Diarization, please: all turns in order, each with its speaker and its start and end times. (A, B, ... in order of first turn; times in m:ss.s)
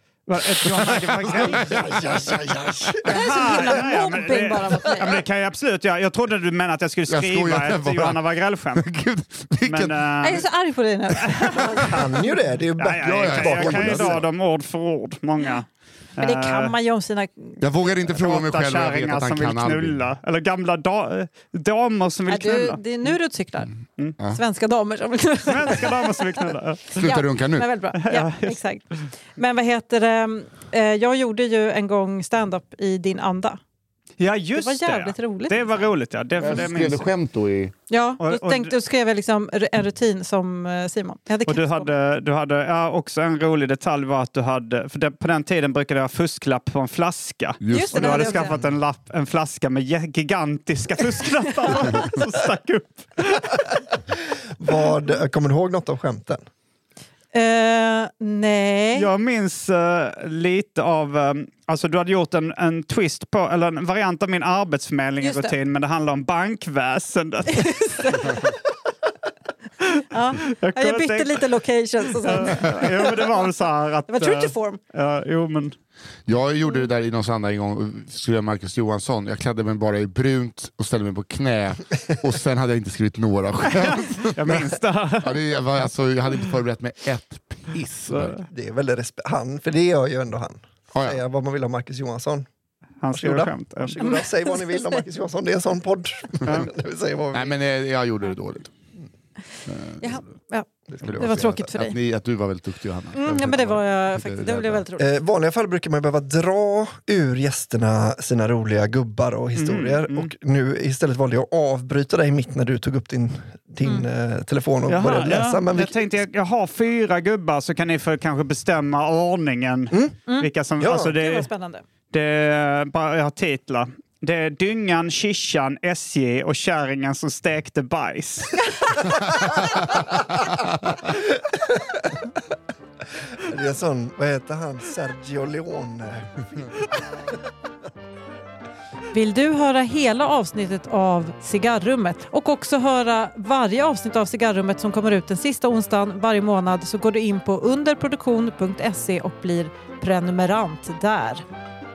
0:00.3-0:01.9 A
0:00.4-0:03.0 B
0:01.4-0:03.8 C
0:03.0-0:08.9 A
0:03.1-0:05.2 D
0:07.1-0:10.0 B
0:09.6-0:10.4 A
0:10.2-0:12.3 D
0:11.4-0:11.9 A
0:11.8-0:14.2 C
0:12.8-0:16.8 A
0:13.0-0:14.2 B
0:16.2-0:17.6 D
0:17.6-0:20.0 B
0:18.1-0:22.8 A
0:22.3-0:23.7 D
0:24.3-0:26.4 D
0:25.4-0:27.1 A
0:27.0-0:27.7 B
0:27.0-0:33.6 D
0:27.9-0:28.6 A
0:34.2-0:37.1 A
0:34.5-0:35.9 D
0:36.4-0:37.7 B
0:37.9-0:41.9 D
0:38.2-0:38.7 A
0:41.5-0:53.8 A
0:47.6-0:48.7 B
0:47.7-0:48.6 D
0:54.6-0:56.4 C
0:57.3-0:59.1 D
0:58.9-1:08.5 A
1:05.2-1:05.6 D
1:07.5-1:08.6 D
1:10.1-1:13.3 D
1:10.6-1:11.5 A
1:12.2-1:15.7 A
1:14.1-1:14.8 D
1:16.3-1:24.6 B
1:23.8-1:25.4 A
1:25.2-1:28.4 B
1:28.1-1:28.4 A
1:28.5-1:32.5 C
1:30.9-1:31.2 B
1:33.0-1:34.0 A
1:33.1-1:37.5 C
1:34.0-1:35.0 D
1:37.3-1:38.7 B
1:39.7-1:40.3 B
1:40.0-1:42.0 D
1:40.9-1:41.8 C
1:41.0-1:44.8 B
1:43.1-1:45.1 D
1:45.0-1:56.0 C
1:49.6-1:50.3 A
1:53.8-1:54.1 D
1:54.9-2:01.5 A
1:59.9-2:00.2 C
2:00.3-2:00.5 D
2:00.8-2:01.2 C
2:01.1-2:01.8 D
2:02.1-2:08.6 A
2:13.4-2:17.0 C
2:19.1-2:31.4 D